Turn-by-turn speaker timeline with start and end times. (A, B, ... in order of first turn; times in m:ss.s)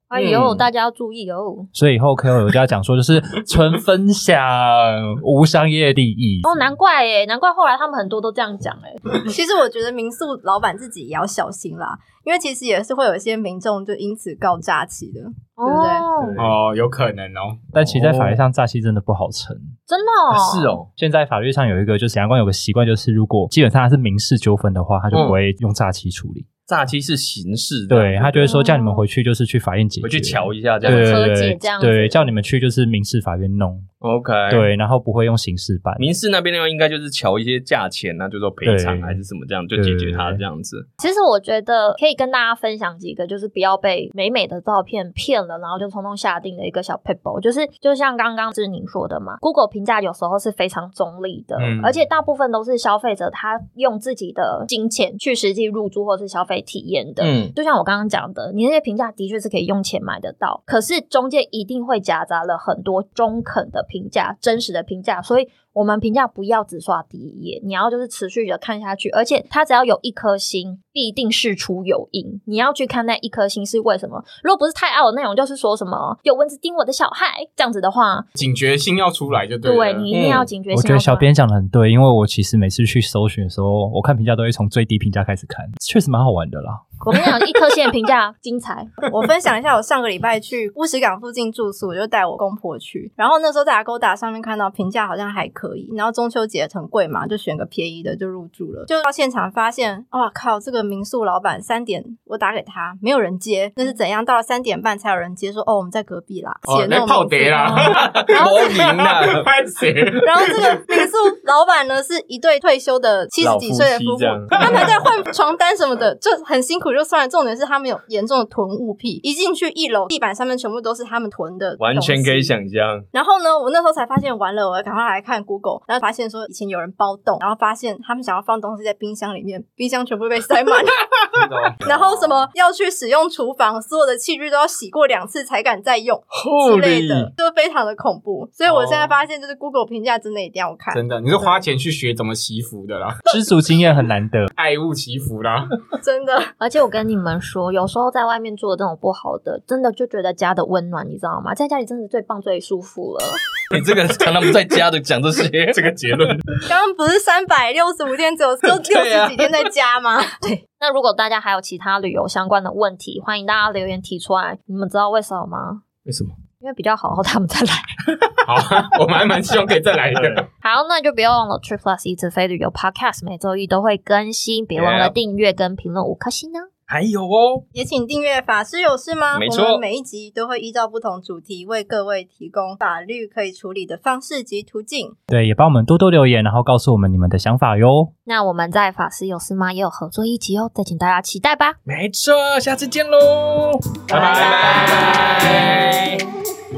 0:00.1-0:01.7 A
0:00.2-0:00.7 B
0:01.7-0:06.6 C
0:06.4-0:09.2 A
0:09.3-0:16.1 D
0:15.6-0:16.4 A
0:16.2-0:16.5 B
0:16.4-0:17.6 E
0:17.7-0:19.8 C
0:17.8-0:18.4 B
0:19.9-0:20.8 A
0:20.3-0:20.9 B
0:21.0-0:26.5 C
0:25.1-0:25.4 B
0:26.7-0:28.5 B
0:27.9-0:33.9 C
0:28.4-0:29.0 A
0:30.0-0:31.3 B
0:30.8-0:32.3 A
0:34.0-0:34.7 B
0:34.5-0:36.1 C
0:36.0-0:40.9 B
0:38.6-0:39.2 C
0:39.7-0:40.4 C
0:41.0-1:18.3 A
0:51.6-0:52.0 E
0:57.2-0:57.5 B
1:18.4-1:20.1 E
1:19.6-1:21.3 A
1:20.1-1:20.5 B
1:20.7-1:27.0 C
1:27.0-1:28.9 A
1:29.1-1:48.5 D
1:46.6-1:50.8 E
1:47.7-1:48.0 A
1:47.8-1:49.5 B
1:50.2-2:02.5 D
1:53.4-1:54.9 B
1:54.6-1:54.9 E
2:01.8-2:03.1 B
2:03.1-2:11.3 D
2:11.3-2:11.8 E
2:11.8-2:12.3 B
2:11.8-2:21.1 D
2:16.3-2:17.3 B
2:18.7-2:19.1 E
2:20.9-2:23.2 E
2:23.3-2:24.5 C
2:24.6-2:25.8 E
2:26.0-2:26.5 D
2:26.6-2:33.4 A
2:33.7-2:35.9 B
2:35.7-2:36.5 E
2:36.7-2:40.4 D
2:38.7-2:39.5 B
2:40.4-2:45.8 A
2:46.1-2:46.4 B
2:46.6-2:48.0 A
2:48.4-2:50.5 E
2:50.1-2:50.4 B
2:50.6-2:56.7 A
2:54.8-2:55.2 B
2:56.9-2:57.6 B
2:57.7-3:05.2 D
2:59.3-2:59.8 B
3:05.3-3:08.1 C
3:08.3-3:11.8 A
3:11.9-3:16.2 B
3:14.1-3:15.5 E
3:14.2-3:14.9 A